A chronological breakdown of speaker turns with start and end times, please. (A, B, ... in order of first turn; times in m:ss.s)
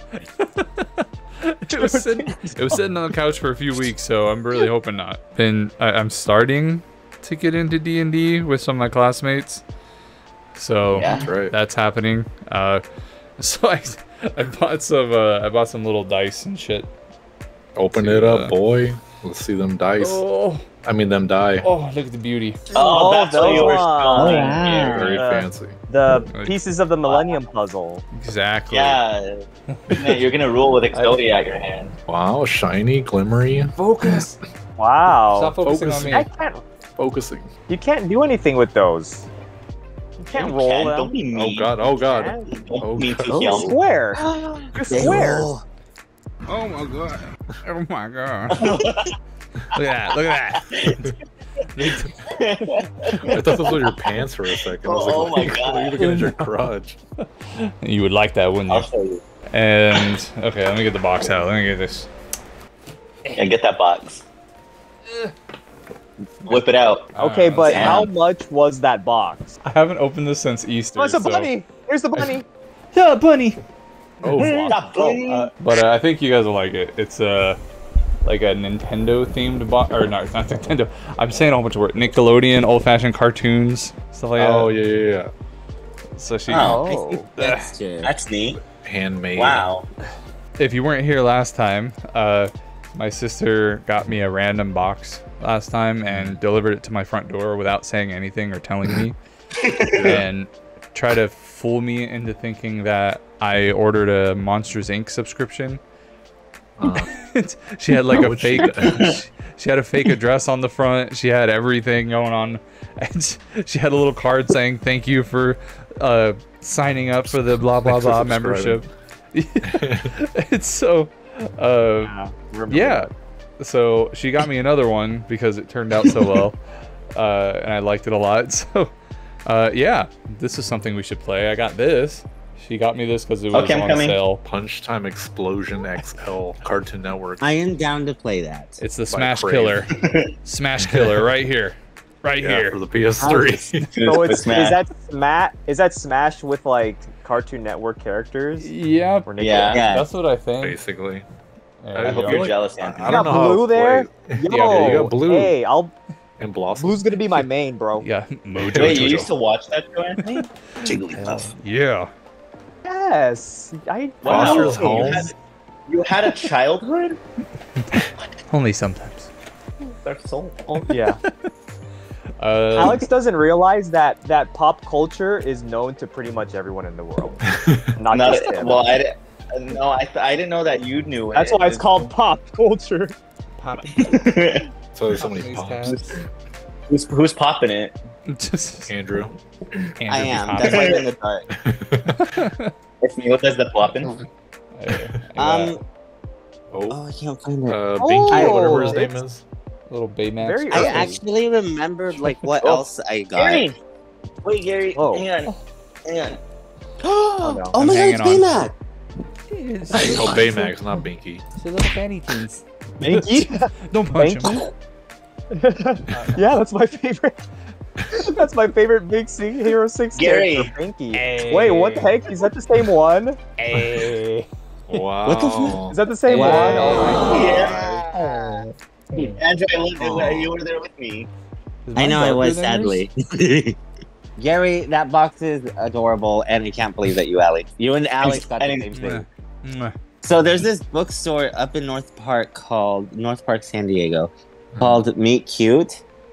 0:00.1-0:09.6 A
0:01.7-0:02.8 B
0:10.6-0:12.8 A
0:11.0-0:11.3 C
0:11.1-0:11.5 D
0:13.4-0:16.9 A
0:17.8-0:20.2 D
0:18.0-0:18.5 A
0:20.0-0:20.7 A
0:20.8-0:21.7 D
0:21.6-0:24.4 A
0:22.7-0:25.2 C
0:22.7-0:28.0 B
0:24.2-0:25.2 E
0:24.6-0:25.8 D
0:27.1-0:27.4 C
0:28.1-0:29.0 A
0:28.7-0:32.0 C
0:29.7-0:30.2 A
0:30.9-0:31.6 A
0:32.1-0:34.3 D
0:33.8-0:34.4 A
0:34.8-0:35.5 B
0:35.3-0:36.3 A
0:35.6-0:36.2 D
0:36.1-0:36.7 B
0:37.0-0:37.5 D
0:37.7-0:39.3 B
0:40.2-0:41.2 B
0:40.3-0:41.8 C
0:41.3-0:43.6 D
0:41.8-0:42.5 B
0:42.5-0:43.8 C
0:43.3-0:45.6 E
0:43.5-0:44.2 B
0:44.7-0:45.5 B
0:46.5-0:48.6 A
0:48.5-0:49.2 C
0:49.7-0:51.1 A
0:50.7-0:51.1 C
0:51.8-0:52.4 A
0:52.2-0:54.2 C
0:53.2-0:57.0 D
0:54.8-0:56.1 C
0:57.2-0:58.9 A
0:58.7-0:59.2 C
0:59.5-1:02.1 A
1:03.3-1:04.2 C
1:06.4-1:07.1 C
1:07.1-1:08.1 A
1:07.2-1:09.6 B
1:07.6-1:08.1 C
1:09.6-1:11.5 A
1:11.0-1:12.4 B
1:12.9-1:13.6 A
1:14.2-1:14.8 D
1:14.2-1:14.7 A
1:14.4-1:15.5 C
1:15.0-1:15.5 B
1:15.6-1:17.6 A
1:18.2-1:24.7 A
1:24.4-1:25.3 D
1:26.2-1:26.8 A
1:26.5-1:26.8 C
1:26.6-1:27.2 B
1:26.6-1:28.2 E
1:27.4-1:27.7 A
1:28.0-1:28.6 C
1:28.6-1:29.7 D
1:29.4-1:29.8 C
1:30.6-1:39.2 A
1:36.1-1:36.4 D
1:39.6-1:40.1 C
1:39.9-1:40.3 D
1:39.9-1:45.8 A
1:46.8-1:47.1 D
1:46.8-2:02.1 A
1:48.1-1:49.2 D
1:48.6-1:49.1 C
1:57.8-1:58.8 D
1:59.6-2:00.1 D
2:02.0-2:03.1 B
2:02.7-2:06.6 A
2:07.1-2:08.9 A
2:09.5-2:14.4 A
2:13.5-2:14.2 C
2:14.4-2:17.5 D
2:17.4-2:18.8 E
2:18.8-2:19.9 A
2:19.1-2:20.0 D
2:20.0-2:20.3 C
2:20.4-2:22.8 A
2:20.8-2:21.3 D
2:22.4-2:23.9 D
2:23.2-2:23.5 E
2:23.9-2:24.8 C
2:24.0-2:28.7 B
2:28.6-2:30.8 A
2:29.2-2:29.9 B
2:29.4-2:29.9 C
2:29.7-2:30.1 E
2:30.6-2:31.2 D
2:31.8-2:32.5 A
2:32.0-2:35.6 D
2:32.0-2:33.4 C
2:33.0-2:35.9 B
2:34.5-2:35.2 A
2:36.4-2:37.1 D
2:36.8-2:38.1 B
2:38.0-2:39.2 A
2:38.5-2:39.3 D
2:38.8-2:41.5 C
2:40.3-2:42.1 A
2:42.8-2:45.3 B
2:44.2-2:45.4 C
2:44.2-2:45.3 D
2:45.9-2:47.2 C
2:48.5-2:49.3 A
2:50.0-2:50.9 C
2:50.8-2:51.2 B
2:52.4-2:53.0 A
2:52.7-2:57.4 B
2:57.4-2:58.0 D
2:58.0-2:59.0 B
2:58.1-3:02.1 C
3:01.3-3:03.2 B
3:03.6-3:04.3 A
3:04.0-3:04.7 C
3:04.9-3:06.2 D
3:05.2-3:06.2 A
3:06.9-3:08.0 C
3:08.3-3:08.9 A
3:08.9-3:09.4 D
3:10.0-3:11.0 A
3:10.1-3:11.5 E
3:10.6-3:11.0 C
3:11.5-3:12.4 D
3:12.2-3:12.7 A
3:13.0-3:14.2 C
3:14.8-3:15.8 A
3:15.4-3:15.8 E
3:16.7-3:17.0 D
3:16.9-3:19.0 E
3:17.7-3:19.4 D
3:18.0-3:19.2 B
3:19.9-3:21.1 A
3:20.4-3:21.2 B
3:20.7-3:23.7 E
3:22.6-3:23.8 C
3:24.4-3:25.5 C
3:25.0-3:25.3 B
3:26.0-3:26.4 C
3:27.0-3:28.7 E
3:27.4-3:27.8 B
3:27.7-3:28.7 A
3:29.5-3:30.8 A
3:29.9-3:30.4 E
3:30.0-3:31.4 D
3:31.6-3:34.7 A
3:33.0-3:34.7 B
3:35.5-3:37.4 B
3:36.1-3:36.4 A
3:38.1-3:43.4 B
3:40.2-3:40.7 C
3:41.1-3:42.1 A
3:43.6-3:45.0 A
3:43.7-3:44.1 D
3:44.9-3:46.0 D
3:45.2-3:48.7 E
3:45.9-3:47.6 B
3:46.3-3:49.4 A
3:47.2-3:48.0 C
3:49.4-3:51.3 C
3:51.9-3:53.0 A
3:52.0-3:53.8 E
3:54.4-3:59.3 E
3:58.2-3:58.9 C
3:58.9-3:59.9 A
4:00.2-4:06.0 E
4:04.8-4:05.0 D